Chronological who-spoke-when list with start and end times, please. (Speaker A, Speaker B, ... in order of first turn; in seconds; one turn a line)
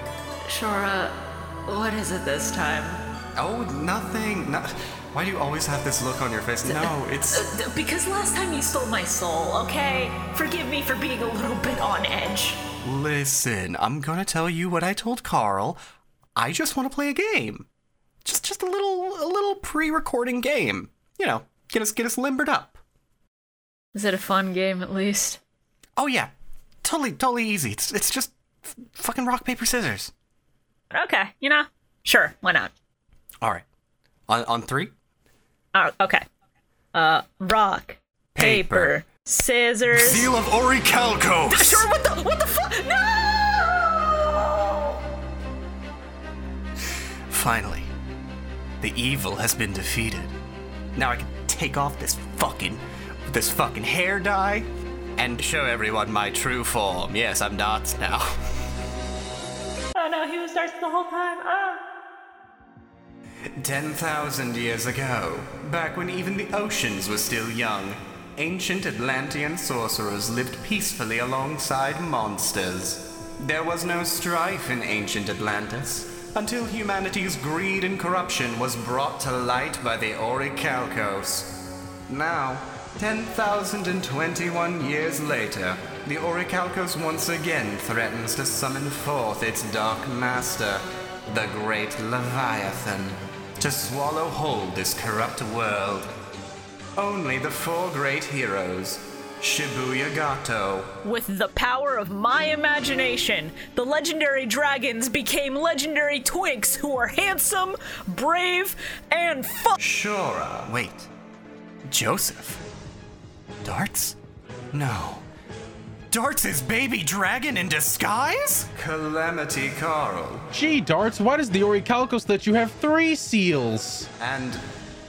Speaker A: 0.4-3.0
Speaker B: 3.4-7.5
Speaker A: 6.7-12.6
Speaker B: 12.8-15.8
Speaker B: 16.3-17.7
Speaker B: 18.2-22.8
Speaker A: 23.9-25.4
Speaker B: 26.0-26.3
Speaker B: 26.8-30.1
Speaker A: 30.9-32.7
Speaker B: 34.3-34.9
Speaker A: 35.7-36.2
Speaker A: 36.9-40.3
Speaker B: 38.3-38.9
Speaker B: 39.9-41.9
Speaker A: 41.5-45.0
Speaker B: 47.3-47.9
Speaker B: 48.8-50.3
Speaker B: 50.9-58.4
Speaker A: 59.9-61.8
Speaker B: 63.6-96.1
Speaker B: 97.0-101.0
Speaker A: 101.0-109.8
Speaker B: 109.8-111.1
Speaker B: 111.9-112.6
Speaker B: 113.6-114.2
Speaker B: 114.7-115.2
Speaker B: 116.1-120.5
Speaker C: 120.5-124.1
Speaker B: 124.2-124.6